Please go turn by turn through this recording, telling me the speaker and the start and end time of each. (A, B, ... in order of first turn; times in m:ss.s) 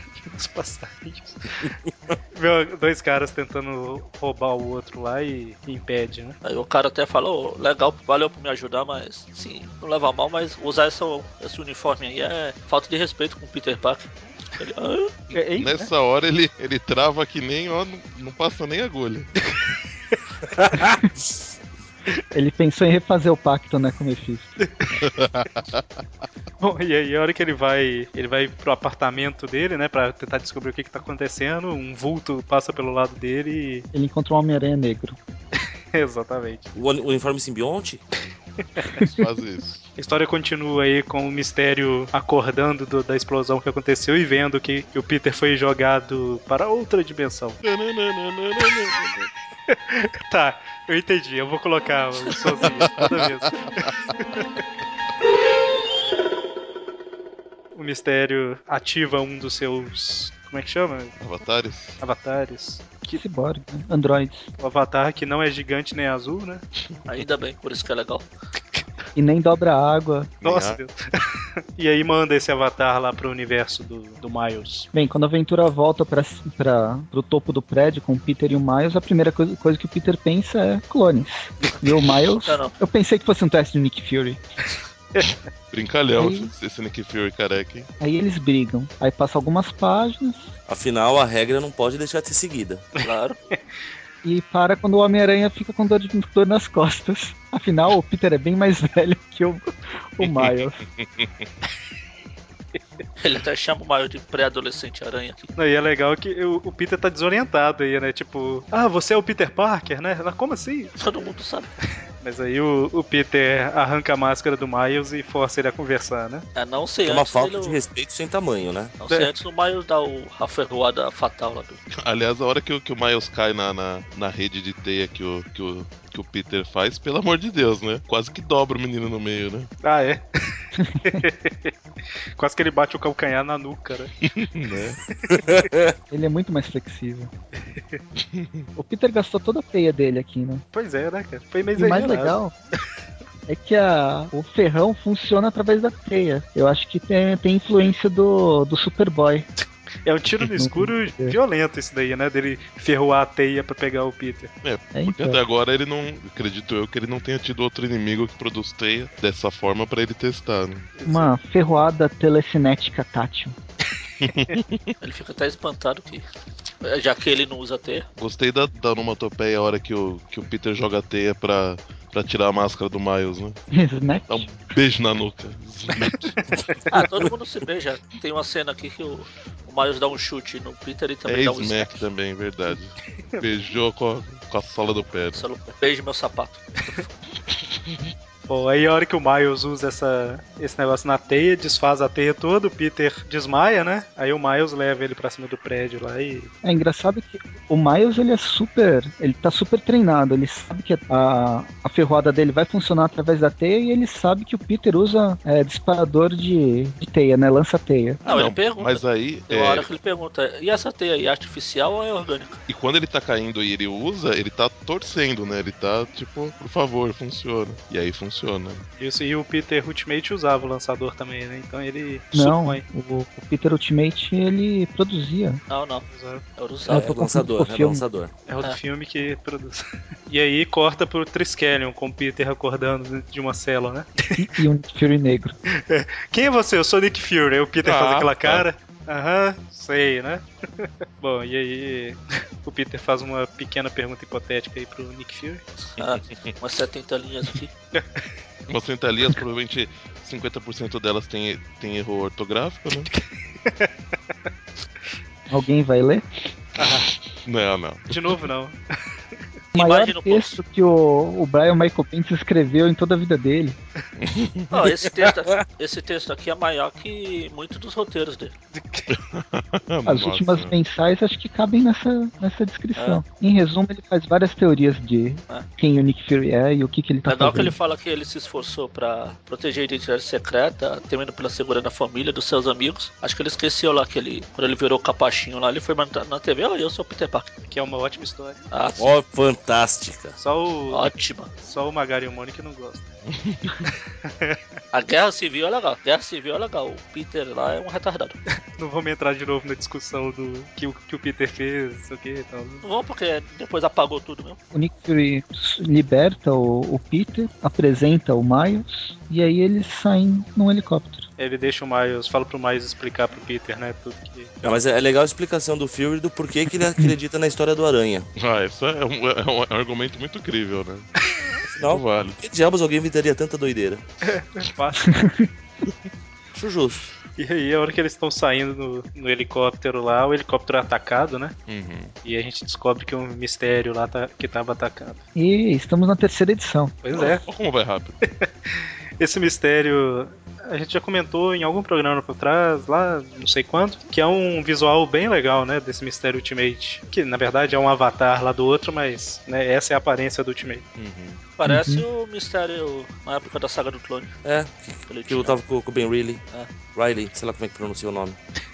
0:00.2-0:01.7 A
0:01.6-0:02.1 B
0:02.3-0:06.4 A
0:06.4-0:15.1 C
0:15.3-0:15.9 A
0:15.6-0:19.3 D
0:22.3-0:24.6 E
0:24.6-0:25.0 A
0:25.0-0:25.8 D
0:26.6-0:33.9 A
0:33.9-0:35.2 E
0:35.9-0:36.7 A
0:36.7-0:38.0 B
0:39.0-0:39.8 D
0:40.0-0:47.6 A
0:47.6-0:49.3 D
0:49.7-0:54.4 A
0:52.8-0:53.3 D
0:57.7-1:01.2 A
1:01.2-1:02.0 D
1:02.0-1:03.2 A
1:03.1-1:04.5 E
1:04.6-1:06.6 A
1:07.1-1:08.2 C
1:09.1-1:10.3 E
1:10.4-1:10.8 D
1:10.4-1:11.2 A
1:11.8-1:14.9 A
1:14.9-1:24.4 E
1:22.4-1:22.7 C
1:25.7-1:27.9 D
1:26.2-1:26.5 E
1:28.0-1:30.5 E
1:30.7-1:32.8 B
1:33.0-1:33.4 C
1:34.2-1:40.8 E
1:40.2-1:41.3 D
1:43.2-1:45.5 C
1:45.6-1:50.9 A
1:51.0-1:51.7 C
1:52.2-1:56.4 A
1:56.5-1:57.8 C
1:57.0-1:58.9 B
1:59.0-2:01.8 C
2:01.9-2:09.7 D
2:09.8-2:11.7 A
2:10.7-2:11.2 E
2:12.4-2:14.1 A
2:14.3-2:15.0 D
2:15.3-2:15.7 A
2:15.3-2:15.9 B
2:16.1-2:17.3 E
2:17.7-2:18.0 A
2:18.2-2:18.7 D
2:18.7-2:20.6 E
2:20.7-2:22.4 A
2:21.7-2:22.5 E
2:23.5-2:29.5 E
2:30.0-2:34.5 A
2:30.5-2:31.4 E
2:34.6-2:40.9 D
2:34.9-2:35.4 E
2:41.0-2:41.3 A
2:41.0-2:43.5 E
2:44.2-2:44.9 D
2:45.0-2:46.2 C
2:46.8-2:48.1 C
2:48.2-2:53.6 D
2:53.7-2:54.5 E
2:54.3-2:56.4 D
2:56.4-2:56.8 A
2:56.9-3:02.1 C
3:01.2-3:05.4 D
3:05.3-3:07.0 C
3:08.5-3:16.5 A
3:16.6-3:28.2 E
3:28.2-3:32.6 C
3:28.3-3:29.9 D
3:32.7-3:38.8 D
3:39.0-3:42.8 A
3:42.3-3:45.6 E
3:45.7-3:46.0 C
3:46.1-3:46.4 A
3:46.6-3:47.1 C
3:46.9-3:48.0 E
3:46.9-3:48.3 B
3:48.5-3:54.2 A
3:54.4-3:55.5 E
3:55.8-4:05.6 A
3:57.8-3:58.6 D
4:05.9-4:07.7 C
4:07.9-4:08.2 A
4:08.7-4:13.1 D
4:13.6-4:13.9 A
4:15.5-4:16.5 E
4:16.8-4:17.1 A
4:17.4-4:18.1 D
4:18.1-4:18.8 A
4:19.7-4:20.6 C
4:19.7-4:23.8 E
4:24.2-4:24.7 D
4:24.7-4:28.5 C
4:25.3-4:25.6 B
4:28.7-4:29.1 A
4:29.1-4:30.8 D
4:30.0-4:37.8 E
4:33.0-4:33.2 C
4:37.2-4:47.5 C
4:47.7-4:48.6 A
4:48.7-4:49.1 C
4:49.0-4:50.4 B
4:50.4-4:53.1 A
4:50.9-4:51.5 C
4:53.3-4:53.8 D
4:53.8-4:54.6 A
4:54.9-4:58.4 C
4:58.8-5:02.8 A
5:02.8-5:04.6 C
5:04.7-5:11.2 E
5:11.4-5:14.5 A
5:14.6-5:18.3 B
5:18.4-5:21.1 D
5:21.7-5:24.0 B
5:21.9-5:22.4 D
5:24.2-5:25.1 A
5:25.1-5:25.5 E
5:26.5-5:27.1 B
5:27.4-5:31.5 A
5:31.7-5:32.1 D
5:32.2-5:35.2 A
5:35.3-5:37.0 E
5:37.0-5:37.4 A
5:37.1-5:38.2 D
5:38.2-5:50.8 A
5:51.0-5:51.4 D
5:51.6-5:54.3 C
5:51.6-5:52.0 E
5:54.4-5:58.4 B
5:55.0-5:55.6 C